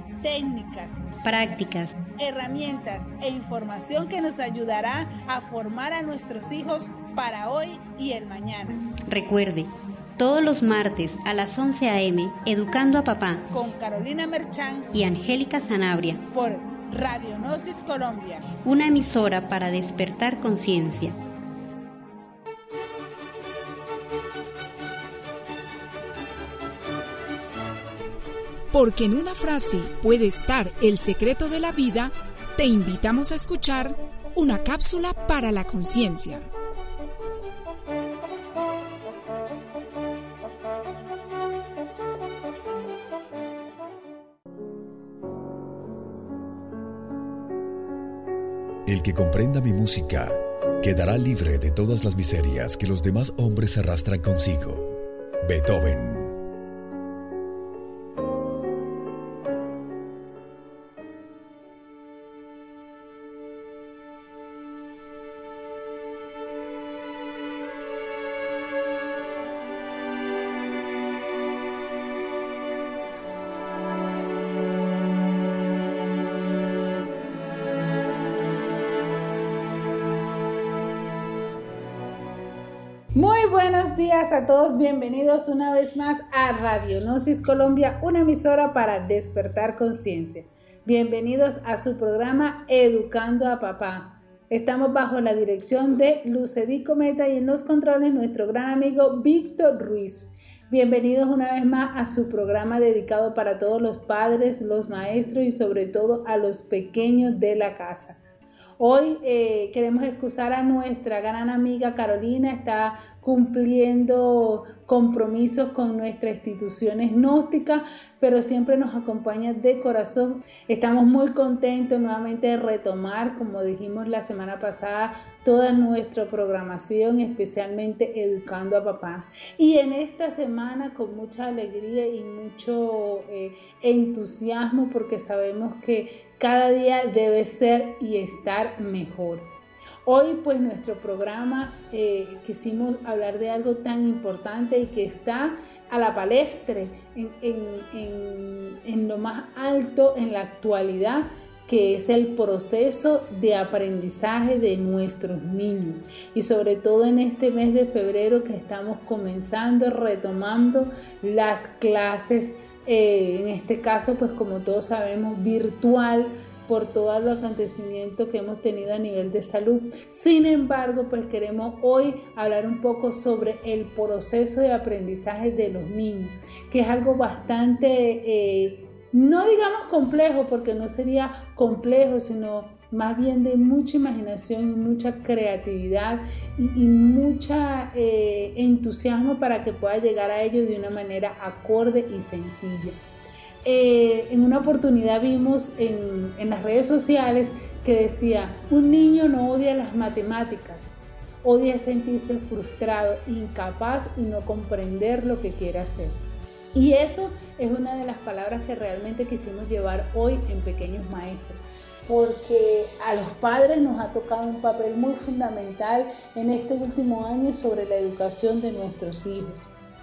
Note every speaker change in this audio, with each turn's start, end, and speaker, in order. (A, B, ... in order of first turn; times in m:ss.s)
0:00.2-0:01.1 A
0:01.2-0:02.0 B
0:02.2-0:08.8 A
0:09.1-0:13.4 B
0:13.5-0:14.9 A
0:14.9-0:16.2 B
0:16.3-0:18.4 A
0:18.6-0:21.1 B
0:28.7-0:36.5 C
0:48.8-0:56.3 D
1:23.2-1:48.2 A
1:48.8-2:19.5 A
2:20.0-3:13.0 A
3:13.6-3:26.2 A
3:26.7-3:39.7 A